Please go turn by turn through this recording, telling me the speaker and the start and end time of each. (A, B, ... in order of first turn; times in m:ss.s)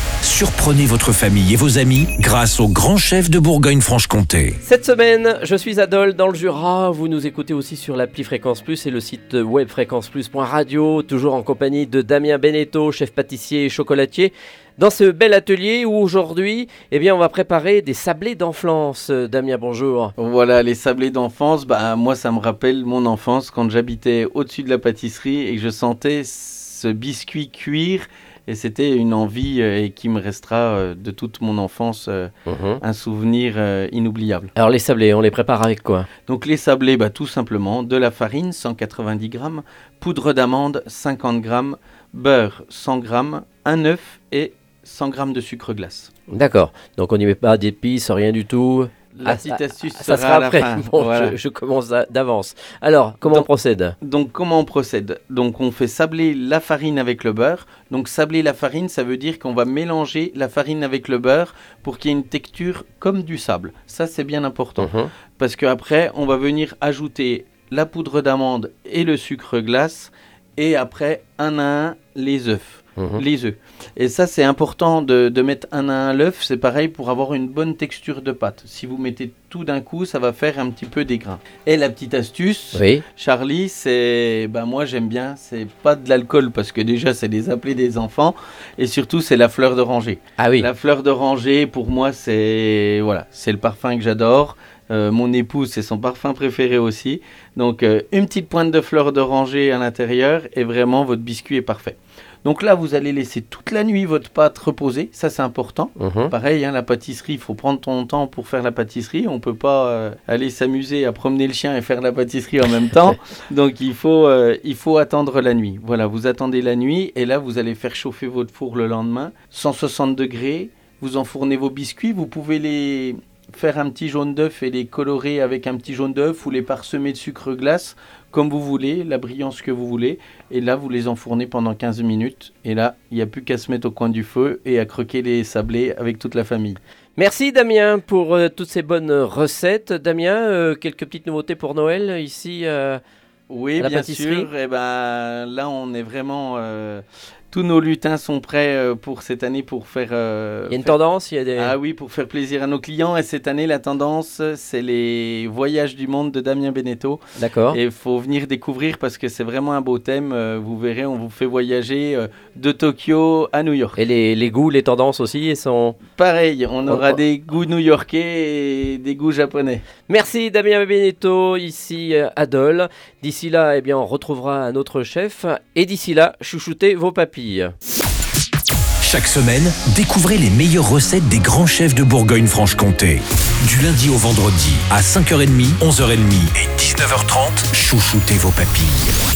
0:00.2-0:04.6 A
0:04.6-0:20.1 B
0:20.2-0:32.3 C
0:32.4-0:32.8 B
0:32.8-0:34.5 C
0:34.6-0:36.1 B
0:36.3-0:46.1 C
0:46.3-0:53.9 B
0:49.1-0:51.4 C
0:54.0-2:16.8 C
1:04.8-1:05.1 B
1:13.0-1:13.2 B
1:22.7-1:23.0 B
1:30.4-1:30.7 B
1:46.0-1:46.3 B
2:17.2-2:23.0 B
2:23.5-2:30.9 C
2:23.8-2:24.5 B
2:30.7-2:31.7 B
2:31.6-2:44.0 C
2:37.4-2:37.8 B
2:44.0-2:46.0 B
2:46.1-2:49.8 C
2:46.9-2:47.2 B
2:50.1-2:57.7 B
2:59.0-3:09.1 A